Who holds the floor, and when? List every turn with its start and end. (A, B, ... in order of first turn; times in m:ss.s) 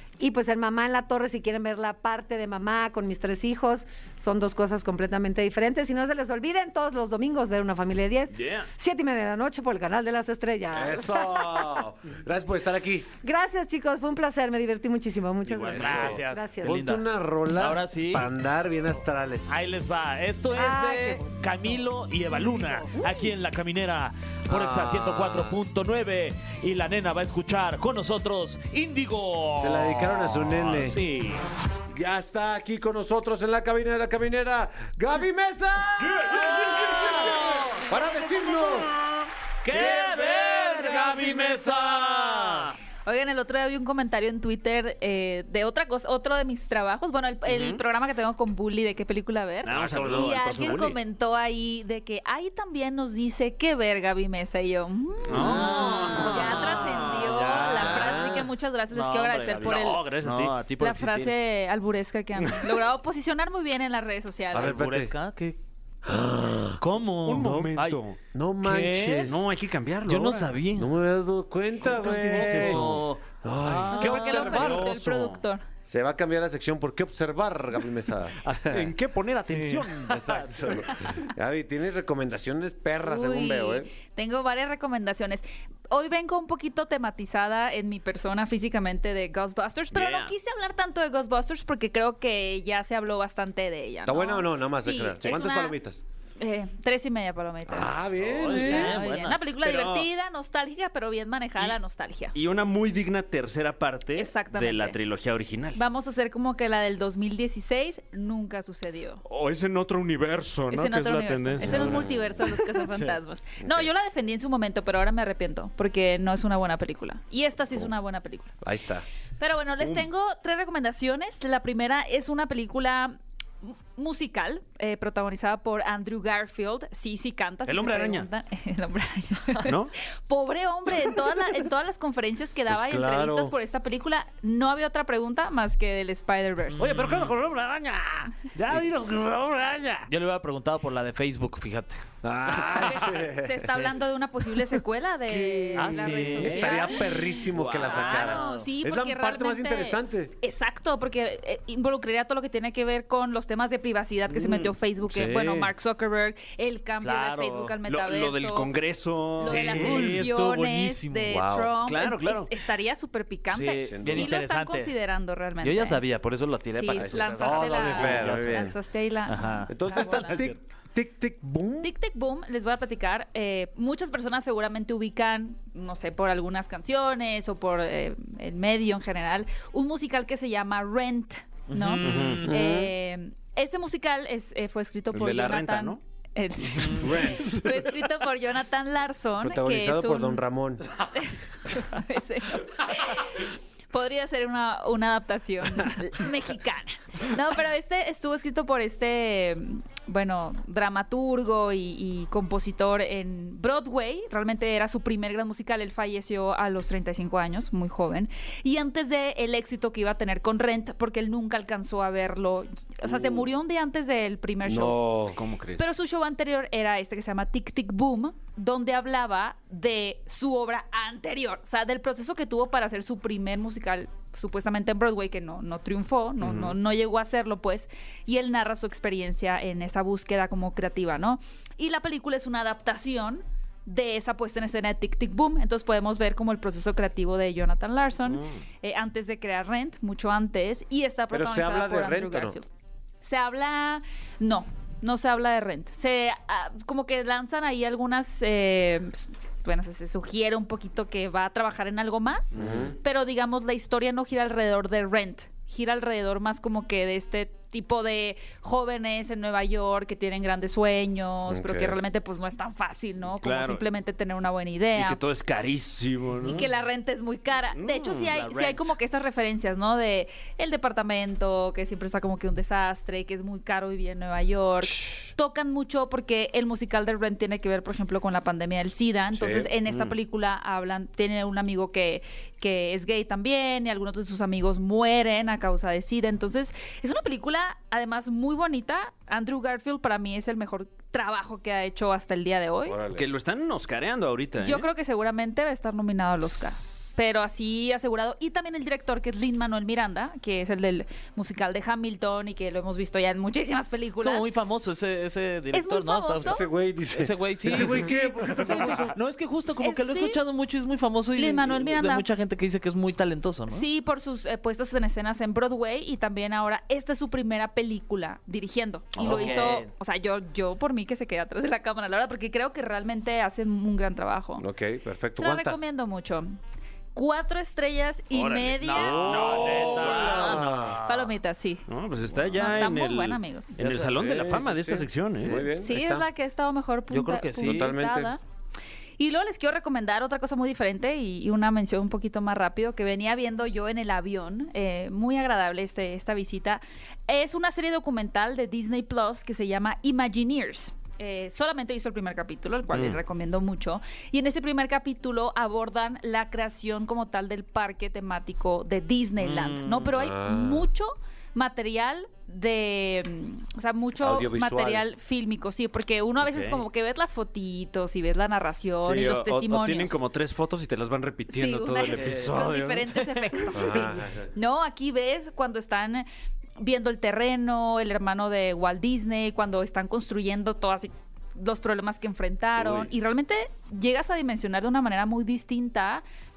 0:00.2-0:11.7 A
0:08.4-0:08.7 B
0:10.7-0:13.1 C
0:13.2-0:16.8 A
0:15.5-0:18.3 D
0:15.7-0:19.6 C
0:19.5-0:31.4 D
0:20.5-0:21.8 A
0:22.4-0:23.3 A
0:24.5-0:25.6 C
0:29.6-0:31.0 C
0:31.9-0:39.1 C
0:36.1-0:37.6 B
0:36.9-0:37.8 D
0:39.6-0:42.5 C
0:39.7-0:40.5 D
0:39.8-0:42.7 B
0:43.0-1:00.1 E
0:47.4-0:47.8 B
0:49.6-0:51.0 B
0:49.7-0:50.3 C
0:55.3-0:57.7 B
0:55.3-1:01.3 D
0:57.8-0:58.5 C
1:00.2-1:00.6 B
1:00.8-1:04.9 E
1:02.4-1:02.7 B
1:04.5-1:05.1 C
1:04.5-1:05.6 D
1:06.0-1:06.8 C
1:06.8-1:08.0 D
1:07.2-1:08.2 B
1:08.3-1:09.5 C
1:08.6-1:09.3 D
1:09.2-1:10.6 B
1:10.0-1:10.9 D
1:10.7-1:15.0 C
1:12.0-1:14.6 D
1:12.0-1:13.1 B
1:13.7-1:15.4 B
1:13.9-1:15.6 E
1:15.9-1:18.9 C
1:18.5-1:20.3 B
1:19.4-1:20.3 D
1:20.1-1:23.9 C
1:23.0-1:35.8 E
1:29.9-1:30.2 D
1:34.0-1:36.0 C
1:36.4-1:42.4 E
1:37.7-1:39.0 C
1:38.2-1:39.5 D
1:39.6-1:40.1 B
1:42.3-1:45.8 B
1:44.1-1:45.0 E
1:45.7-1:49.2 E
1:49.2-1:53.2 B
1:50.7-1:58.5 E
1:51.6-1:52.4 C
1:53.6-1:53.9 C
1:58.6-1:59.0 C
1:59.4-2:16.9 E
2:07.6-2:08.3 B
2:09.6-2:09.9 B
2:12.7-2:13.5 C
2:16.8-2:17.4 D
2:16.8-2:20.1 B
2:20.1-2:22.0 D
2:22.2-2:23.9 C
2:22.8-2:38.8 E
2:25.3-2:30.3 C
2:25.7-2:27.0 D
2:27.6-2:27.9 B
2:27.7-2:28.7 D
2:34.3-2:35.7 C
2:37.0-2:37.8 D
2:37.8-2:40.7 B
2:39.4-2:46.0 E
2:39.4-2:41.4 D
2:41.3-2:41.7 C
2:41.8-2:42.5 B
2:43.5-2:45.0 D
2:43.9-2:44.3 C
2:45.6-2:48.7 D
2:46.7-2:50.4 E
2:46.9-2:48.7 C
2:49.2-2:50.5 D
2:49.7-2:51.9 C
2:51.8-3:10.4 E
3:01.7-3:02.5 D
3:02.0-3:02.5 B
3:02.1-3:02.9 C
3:05.1-3:06.0 B
3:06.9-3:07.9 B
3:09.4-3:10.9 C
3:11.1-3:35.0 E
3:33.0-3:33.4 C
3:34.6-3:35.4 C
3:35.3-3:35.8 B
3:35.8-4:02.7 E
3:46.4-3:46.8 B
3:58.2-3:58.6 B
4:01.3-4:02.6 C
4:03.2-4:25.2 E
4:12.5-4:13.0 C
4:21.5-4:22.0 C
4:23.4-4:23.8 B
4:24.9-4:26.7 B
4:26.4-4:53.0 E
4:27.7-4:28.4 B
4:28.3-4:29.0 D
4:39.4-4:40.1 C
4:52.8-4:53.2 C
4:53.1-4:54.9 B
4:54.6-5:04.5 E
5:04.2-5:13.8 D
5:05.7-5:06.7 E
5:06.4-5:09.1 C
5:07.7-5:09.1 B
5:09.8-5:10.4 E
5:11.4-5:12.3 E
5:13.7-5:24.7 E
5:19.2-5:19.9 D
5:19.3-5:19.6 C
5:24.6-5:25.9 C
5:25.4-5:26.6 E
5:27.1-5:29.4 E
5:28.3-5:30.8 B
5:28.8-5:31.3 D
5:29.2-5:31.0 C
5:30.4-5:31.9 E
5:31.9-5:35.6 B
5:32.5-5:33.8 E
5:33.8-5:36.3 C
5:35.5-5:38.4 E
5:37.1-5:38.0 D
5:37.6-5:38.3 C
5:39.2-6:10.2 E
5:59.4-6:00.1 D
6:00.1-6:00.9 C
6:04.2-6:05.0 C
6:06.4-6:06.8 B
6:09.0-6:14.0 B
6:11.5-6:16.2 E
6:11.9-6:12.5 C
6:13.7-6:14.4 C
6:16.8-6:26.2 E
6:22.8-6:23.1 C